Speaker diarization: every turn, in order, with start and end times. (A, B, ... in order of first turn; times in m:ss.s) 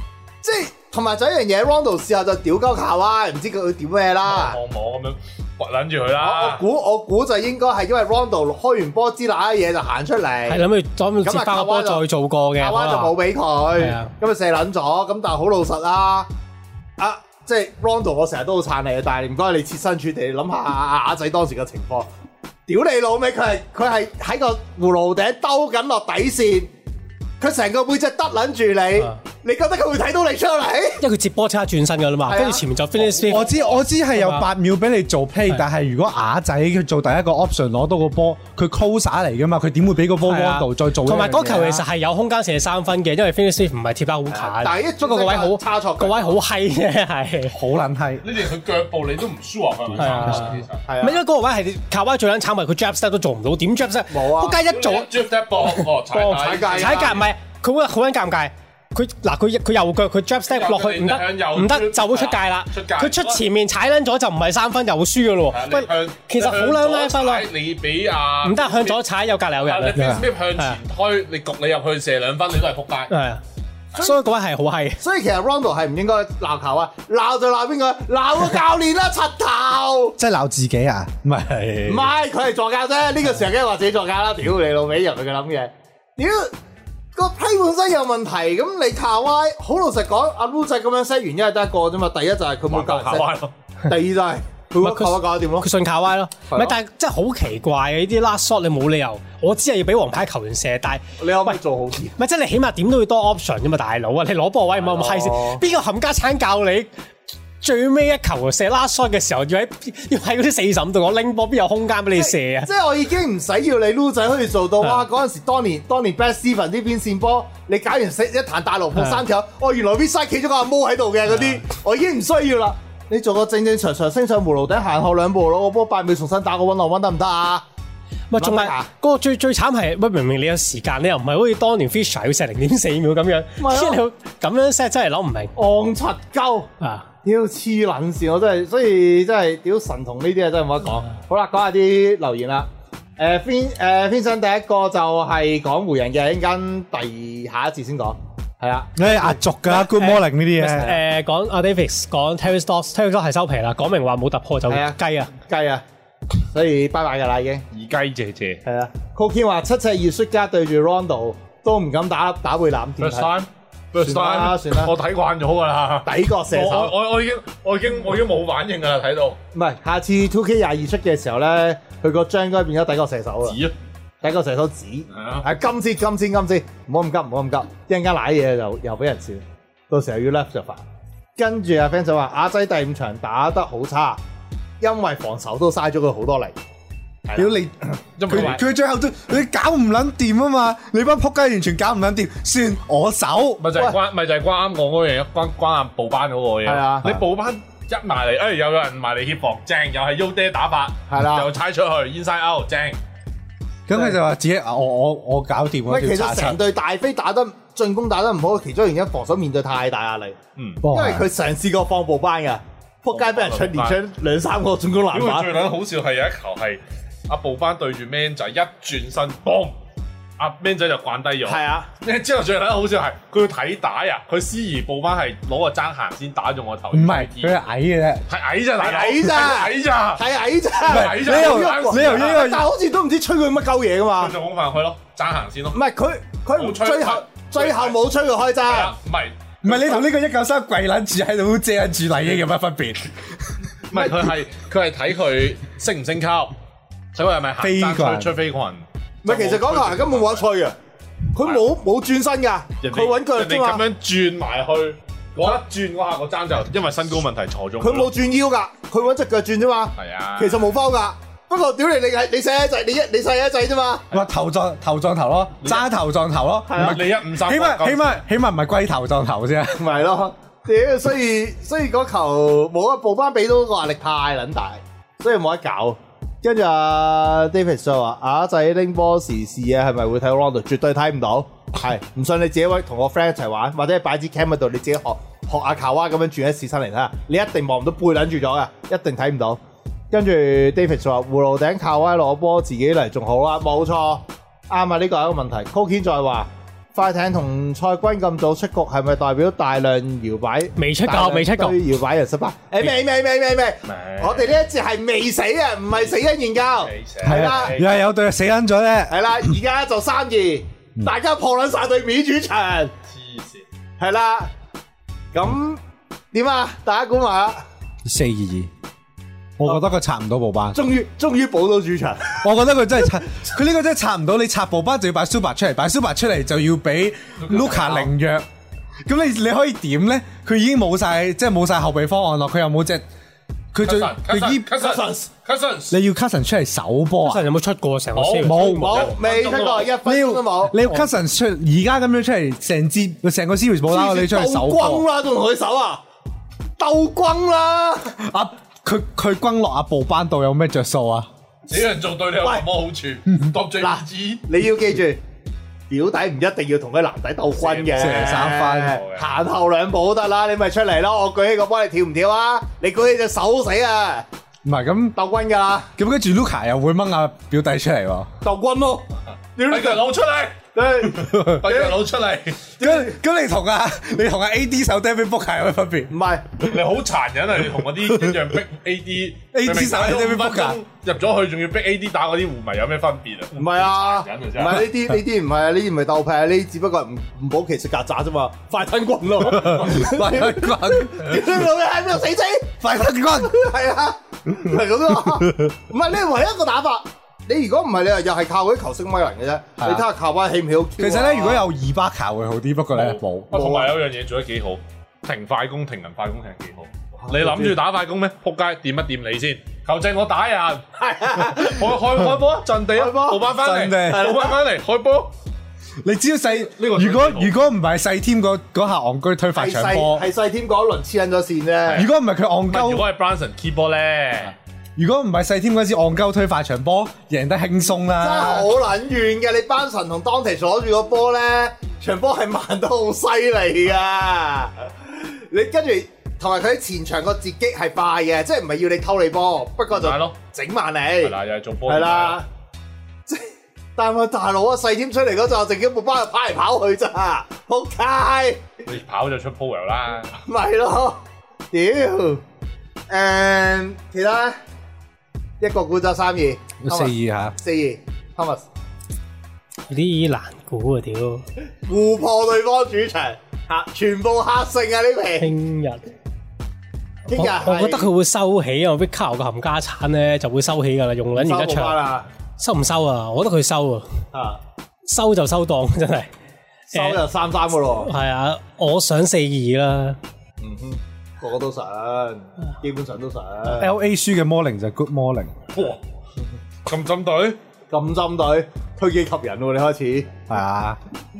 0:00.4-0:04.6 A
0:04.2-0:06.6 B
0:06.2-0:10.6 A
0:10.5-0:13.1 C
0:11.2-0:12.0 A
0:12.6-0:16.3 A
0:13.8-0:14.1 C
0:17.0-0:22.1 A
0:22.7-0:26.7 A
0:27.4-0:31.0 A
0:31.0-0:33.5 C
0:32.3-0:32.6 A
0:33.0-0:33.8 B
0:33.3-0:41.8 D
0:34.1-0:34.5 C
0:40.2-0:47.6 C
0:44.3-0:46.4 A
0:47.5-0:48.2 D
0:48.2-0:50.8 B
0:50.0-0:50.5 D
0:50.0-0:55.1 C
0:50.9-0:51.2 A
0:54.1-0:54.6 A
0:54.7-0:57.2 B
0:56.1-0:57.2 A
0:56.7-1:07.5 C
1:00.5-1:03.4 B
1:05.5-1:09.0 B
1:08.4-1:10.8 C
1:09.6-1:13.1 B
1:10.0-1:10.2 D
1:13.1-1:13.4 C
1:14.0-1:15.0 C
1:15.0-1:20.2 A
1:20.2-1:22.1 D
1:21.9-1:26.5 A
1:27.2-1:33.3 A
1:32.7-1:33.5 B
1:33.8-1:35.7 A
1:34.8-1:41.6 C
1:36.5-1:36.8 A
1:41.2-1:42.2 A
1:42.2-1:46.9 C
1:44.8-1:45.6 A
1:47.6-1:52.7 C
1:52.2-2:07.6 A
1:59.0-1:59.2 C
2:08.3-2:15.5 C
2:08.4-2:08.9 A
2:13.6-2:14.0 A
2:15.6-2:16.7 A
2:16.8-2:17.1 C
2:17.2-2:29.8 A
2:29.0-2:31.0 D
2:29.8-2:35.3 C
2:34.7-2:35.8 A
2:36.4-2:37.6 A
2:37.7-2:38.6 B
2:38.6-2:43.3 A
2:43.0-2:49.4 B
2:44.0-2:44.9 A
2:46.0-2:46.9 A
2:49.5-2:53.6 A
2:53.4-2:53.7 B
2:54.2-3:00.8 A
2:55.1-2:55.5 B
3:01.4-3:04.2 A
3:04.8-3:06.6 A
3:07.2-3:07.6 B
3:07.4-3:13.7 D
3:08.2-3:08.6 B
3:13.6-3:23.0 B
3:16.7-3:17.2 A
3:21.1-3:21.5 A
3:23.9-3:26.6 D
3:25.9-3:30.4 A
3:30.6-3:30.8 B
3:30.8-3:31.2 D
3:30.9-3:35.6 A
3:33.1-3:34.0 B
3:35.1-3:39.7 B
3:40.4-3:47.6 B
3:41.4-3:41.9 A
3:46.9-3:48.2 D
3:48.3-3:50.2 B
3:48.8-3:54.4 A
3:50.8-3:52.4 B
3:50.9-3:52.7 D
3:54.2-3:55.8 B
3:55.7-3:59.0 A
3:56.6-3:58.0 B
3:58.6-4:00.0 B
3:59.6-4:03.3 D
4:03.9-4:06.6 B
4:07.2-4:10.5 B
4:07.6-4:08.4 D
4:09.2-4:10.8 A
4:11.3-4:13.8 A
4:11.4-4:11.7 B
4:12.8-4:18.1 B
4:17.8-4:24.0 A
4:20.0-4:20.7 B
4:24.1-4:29.9 D
4:26.7-4:27.0 A
4:26.7-4:28.2 B
4:29.8-4:49.6 A
4:50.1-5:07.8 A
5:00.8-5:01.8 C
5:03.9-5:04.6 B
5:05.9-5:06.2 B
5:06.8-5:07.9 B
5:07.2-5:09.5 D
5:09.1-5:12.9 A
5:13.1-5:13.6 B
5:14.0-5:14.5 A
5:15.3-5:15.8 A
5:16.3-5:17.6 A
5:18.0-5:18.7 D
5:19.6-5:20.8 D
5:20.7-5:22.4 A
5:22.4-5:28.5 D
5:27.4-5:28.1 B
5:29.1-5:33.0 D
5:33.7-5:34.7 D
5:33.8-5:36.0 B
5:34.7-5:35.3 A
5:35.9-5:37.5 D
5:37.2-5:39.0 C
5:38.2-5:40.0 B
5:38.4-5:39.1 D
5:38.8-5:40.8 A
5:40.0-5:45.0 D
5:43.9-5:46.0 A
5:46.8-5:48.2 A
5:48.2-5:51.3 D
5:51.7-5:54.4 B
5:53.8-5:55.2 A
5:55.9-6:04.3 A
5:57.6-5:59.3 B
5:58.0-5:59.0 D
6:04.6-6:05.2 D
6:05.2-6:05.9 A
6:06.0-6:08.3 D
6:08.4-6:09.0 A
6:09.6-6:10.0 A
6:09.6-6:10.6 B
6:10.7-6:12.0 A
6:11.1-6:12.7 B
6:12.8-6:13.2 A
6:12.8-6:16.1 D
6:16.1-6:16.7 A
6:16.6-6:24.9 B
6:18.0-6:18.5 D
6:19.5-6:20.8 D
6:23.6-6:41.6 A
6:29.5-6:31.7 D
6:32.8-6:33.5 D
6:35.4-6:35.7 D
6:39.8-6:40.1 D
6:41.0-6:43.5 D
6:42.9-6:55.3 B
6:43.5-6:44.0 A
6:47.3-6:47.8 A
6:51.0-6:52.3 A
6:52.8-6:53.5 A
6:53.5-6:54.3 D
6:54.1-6:54.5 A
6:56.0-7:00.3 D
6:56.6-6:57.5 B
6:59.6-7:02.1 A
7:01.9-7:02.1 B
7:01.9-7:03.1 D
7:02.7-7:04.6 B
7:05.0-7:08.7 D
7:08.2-7:21.4 A
7:19.9-7:20.4 B
7:21.2-7:22.4 B
7:21.9-7:22.5 A
7:23.3-7:28.6 A
7:28.8-7:30.4 B
7:30.5-7:32.4 A
7:33.1-7:34.6 A
7:35.6-7:38.7 A
7:36.8-7:37.6 D
7:39.9-7:41.4 C
7:41.9-7:45.5 A
7:45.4-7:46.0 C
7:47.3-7:48.1 A
7:47.3-7:52.0 C
7:51.4-7:52.3 A
7:52.6-7:54.1 C
7:54.3-7:54.6 A
7:55.1-7:56.3 C
7:56.9-7:58.1 A
7:56.9-7:57.2 C
7:58.0-8:00.2 C
8:00.6-8:03.9 A
8:03.7-8:05.6 D
8:05.7-8:06.0 B
8:06.9-8:07.6 B
8:07.9-8:10.4 A
8:10.5-8:11.0 D